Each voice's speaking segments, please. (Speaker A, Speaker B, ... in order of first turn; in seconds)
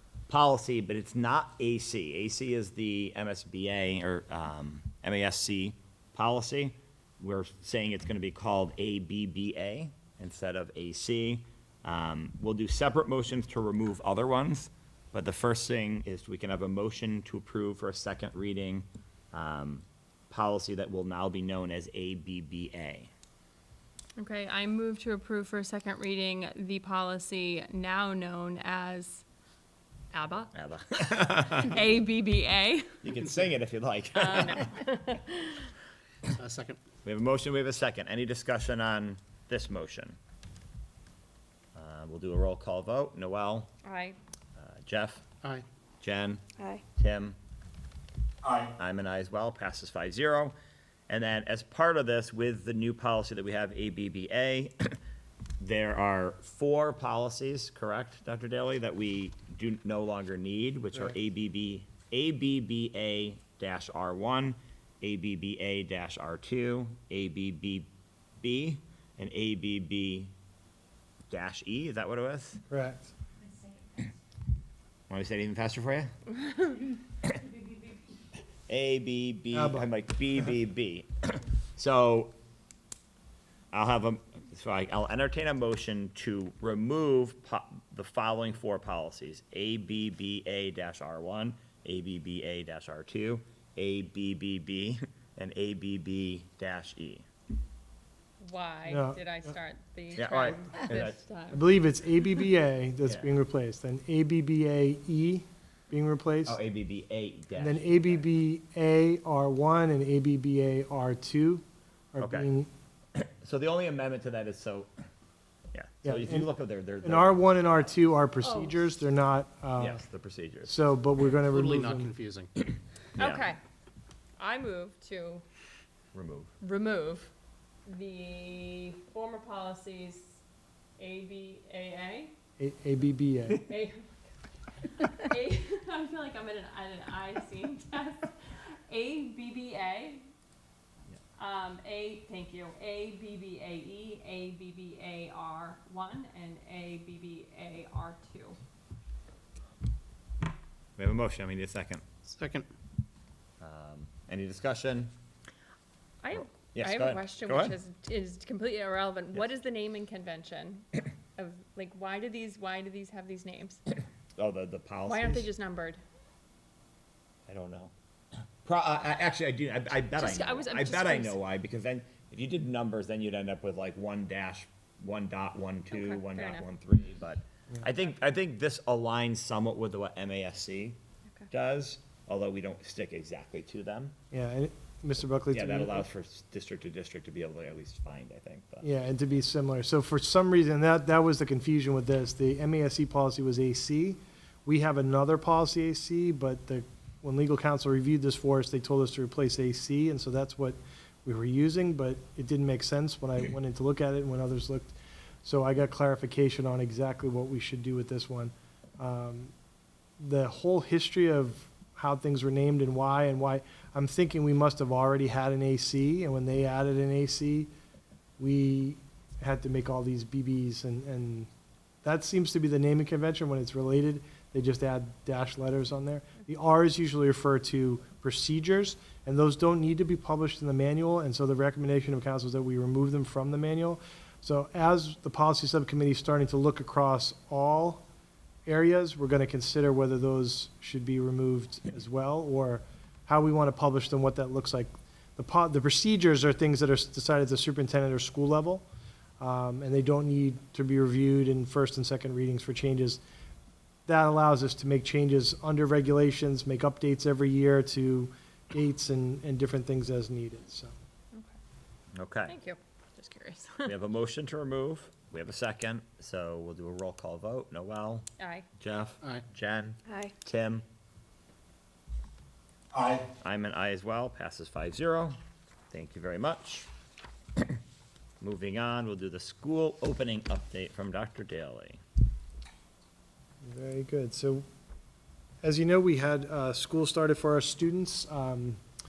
Speaker A: 0.3-23.1, 30.5-31.8, 33.0-34.9, 37.0-40.2, 41.8-43.7, 44.6-45.2, 46.0-46.4, 47.0-47.4, 48.5-50.5, 51.1-55.0, 55.6-67.9, 68.4-70.3, 71.3-72.6, 75.1-76.1, 78.7-82.3, 83.7-97.3, 100.2-101.2, 103.0-103.3, 106.5-108.2, 112.2-112.5, 113.2-114.9, 115.7-118.0, 119.8-120.8, 123.2-123.5, 126.1-126.5, 151.0-152.0, 153.6-155.1, 156.7-157.7, 164.4-165.5, 167.5-167.9, 168.6-181.0, 181.5-184.2, 185.5-188.9, 262.2-262.6, 263.9-268.3, 268.8-270.8, 272.9-275.4, 275.9-276.9, 278.4-282.0
Speaker B: 24.2-29.2, 30.1-30.5, 31.5-33.0, 34.1-35.7, 43.8-44.2, 98.4-101.7, 118.4-118.9, 123.2-123.6, 124.4-125.4, 126.6-127.3, 127.9-130.4, 131.0-132.3, 133.6-134.2, 134.9-140.3, 141.4-148.6, 156.2-163.8, 165.1-166.0, 170.2-171.4, 175.9-176.7, 262.5-263.9, 268.4-268.7, 270.1-270.3
Speaker C: 36.3-36.8, 121.4-122.5, 152.2-152.7
Speaker D: 72.7-73.1, 79.5-79.9, 98.9-99.6, 101.5-106.6, 107.6-112.7, 116.0-116.5, 117.0-120.0, 120.7-122.1, 132.6-133.7, 184.3-186.1, 188.8-209.5, 210.2-217.7, 218.4-221.5, 222.0-238.0, 238.7-248.9, 249.4-253.2, 254.1-260.9, 283.6-284.6, 285.6-288.8